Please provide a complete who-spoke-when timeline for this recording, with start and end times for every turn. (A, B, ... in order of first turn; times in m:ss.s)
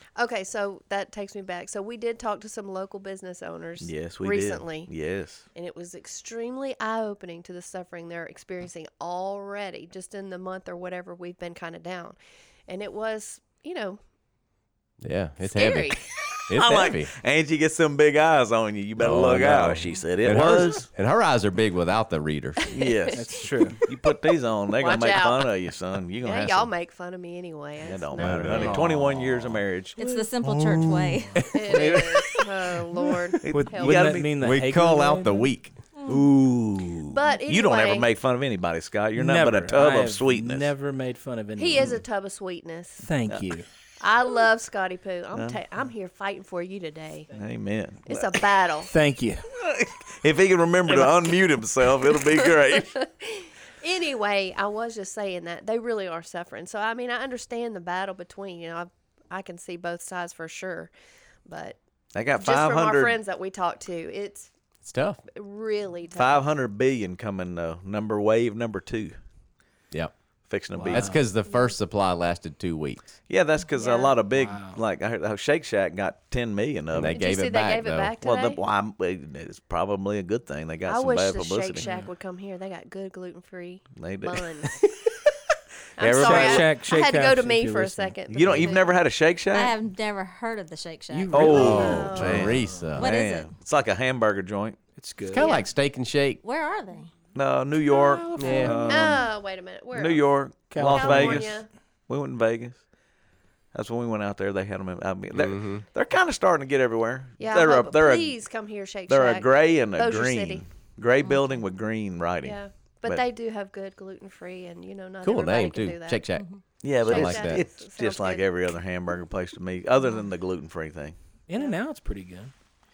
0:00.2-0:04.9 A
0:03.8-0:05.4 B
0:05.6-0:14.0 A
0:15.0-0:16.0 C
0:15.4-0:16.0 A
0:16.5-0:17.1 C
0:16.5-0:20.9 B
0:19.0-0:22.9 C
0:22.7-0:26.7 B
0:22.8-0:23.7 A
0:23.1-0:23.8 D
0:24.8-0:25.5 A
0:26.2-0:28.7 A
0:27.8-0:32.5 B
0:28.2-0:29.6 C
0:28.6-0:28.9 D
0:30.0-0:31.5 E
0:31.5-0:34.2 A
0:33.4-0:34.3 B
0:33.5-0:35.5 D
0:34.4-0:35.8 C
0:36.0-0:36.2 E
0:36.0-0:40.7 B
0:37.1-0:38.1 A
0:39.1-0:42.0 D
0:41.6-0:43.1 A
0:43.0-0:43.7 D
0:44.0-0:47.3 A
0:45.3-0:45.6 B
0:47.3-0:48.4 B
0:48.1-0:48.9 A
0:48.9-0:49.4 D
0:49.6-0:53.0 B
0:52.2-1:00.9 A
1:01.5-1:01.8 A
1:02.1-1:03.2 B
1:02.4-1:04.5 A
1:04.8-1:05.2 C
1:05.3-1:06.5 A
1:06.2-1:09.2 B
1:10.5-1:11.2 B
1:10.7-1:11.2 D
1:10.9-1:13.1 C
1:13.3-1:17.2 B
1:13.8-1:14.2 A
1:14.3-1:14.8 D
1:16.9-1:18.1 C
1:17.1-1:18.6 A
1:18.2-1:21.9 B
1:20.9-1:24.8 A
1:24.0-1:24.7 B
1:26.0-1:29.0 A
1:26.0-1:26.7 B
1:26.2-1:28.7 D
1:28.3-1:29.7 B
1:29.5-1:31.6 E
1:31.1-1:32.9 D
1:31.3-1:34.8 B
1:31.5-1:33.1 C
1:31.5-1:32.6 A
1:33.0-1:33.5 E
1:35.0-1:35.5 D
1:35.3-1:36.4 C
1:35.4-1:35.7 E
1:36.4-1:37.1 E
1:37.4-1:39.2 B
1:37.9-1:39.1 D
1:38.4-1:38.8 C
1:38.9-1:41.7 A
1:39.9-1:42.8 B
1:40.7-1:41.5 D
1:43.7-1:48.4 B
1:45.3-1:45.8 C
1:47.4-1:50.6 A
1:49.1-1:53.2 B
1:51.2-1:51.6 E
1:52.4-1:56.2 A
1:55.2-1:57.6 C
1:56.3-1:56.6 E
1:56.8-2:01.1 B
1:57.0-1:58.4 A
2:00.0-2:00.3 E
2:01.5-2:02.5 D